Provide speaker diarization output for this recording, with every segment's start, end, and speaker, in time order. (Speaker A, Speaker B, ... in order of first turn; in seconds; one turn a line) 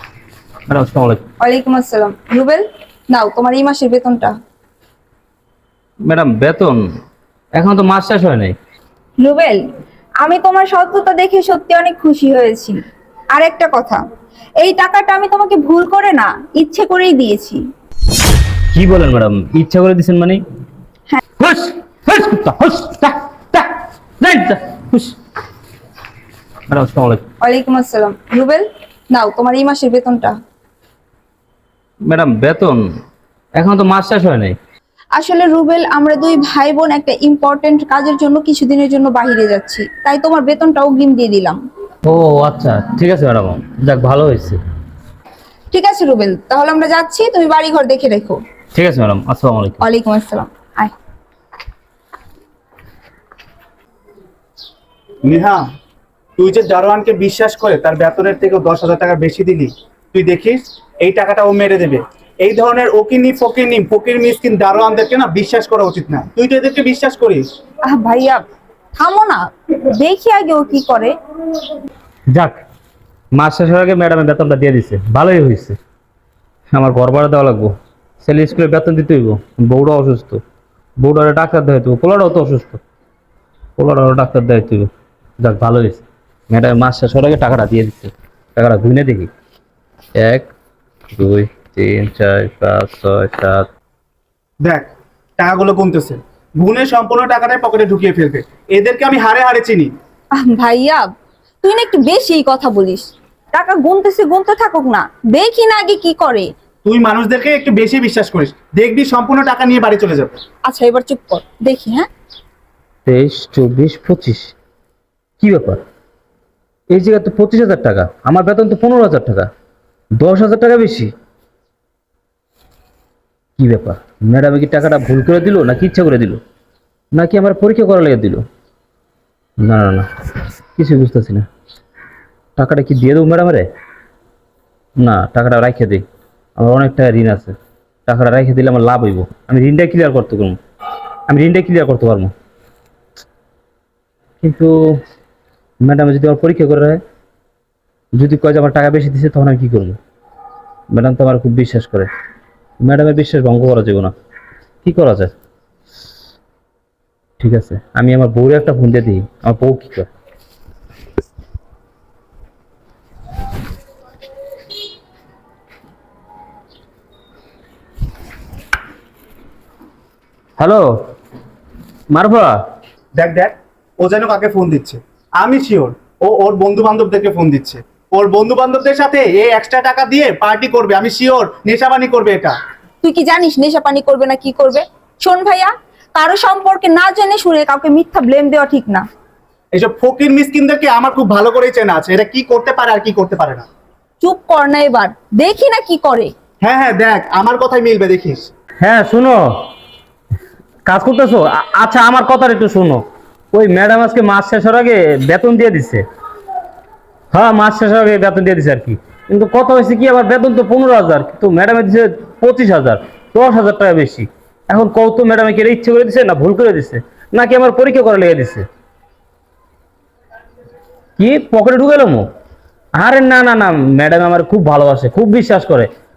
Speaker A: 0.7-1.2
Speaker B: 1.4-4.3
Speaker A: 6.0-6.8
Speaker A: 7.5-8.6
Speaker B: 9.2-9.6
Speaker B: 10.2-12.8
Speaker B: 13.3-14.0
Speaker B: 14.6-17.6
Speaker A: 18.7-20.4
Speaker A: 21.4-25.1
Speaker A: 26.7-27.2
Speaker B: 27.4-30.3
Speaker A: 32.0-32.8
Speaker A: 33.5-34.6
Speaker B: 35.1-41.6
Speaker A: 42.0-44.6
Speaker B: 45.7-48.4
Speaker A: 48.7-49.8
Speaker B: 49.8-50.9
Speaker C: 55.2-55.6
Speaker C: 56.4-67.4
Speaker B: 67.9-68.4
Speaker B: 69.0-71.1
Speaker A: 73.3-75.8
Speaker A: 76.7-80.4
Speaker A: 81.0-82.8
Speaker A: 83.8-84.9
Speaker A: 85.4-89.3
Speaker A: 90.2-90.5
Speaker A: 91.1-93.7
Speaker C: 94.6-99.9
Speaker B: 100.3-101.1
Speaker B: 101.6-106.5
Speaker C: 106.8-110.4
Speaker B: 110.7-112.1
Speaker A: 113.0-114.5
Speaker A: 115.4-115.8
Speaker A: 116.9-119.5
Speaker A: 120.2-121.1
Speaker A: 123.6-126.4
Speaker A: 127.1-128.4
Speaker A: 129.6-130.1
Speaker A: 130.8-131.4
Speaker A: 132.6-133.7
Speaker A: 135.0-136.0
Speaker A: 136.6-137.5
Speaker A: 138.1-140.6
Speaker A: 141.3-142.3
Speaker A: 144.4-145.0
Speaker A: 145.8-147.0
Speaker A: 148.1-150.0
Speaker A: 150.9-152.1
Speaker A: 152.8-154.1
Speaker A: 154.8-155.3
Speaker A: 157.4-160.1
Speaker A: 170.6-170.9
Speaker A: 172.1-172.6
Speaker C: 173.1-182.6
Speaker B: 183.0-189.0
Speaker C: 189.7-193.7
Speaker B: 194.2-196.3
Speaker C: 196.6-198.5
Speaker A: 198.8-199.7
Speaker A: 200.8-203.0
Speaker A: 203.5-206.0
Speaker A: 207.3-218.7
Speaker A: 221.2-222.2
Speaker A: 222.9-225.9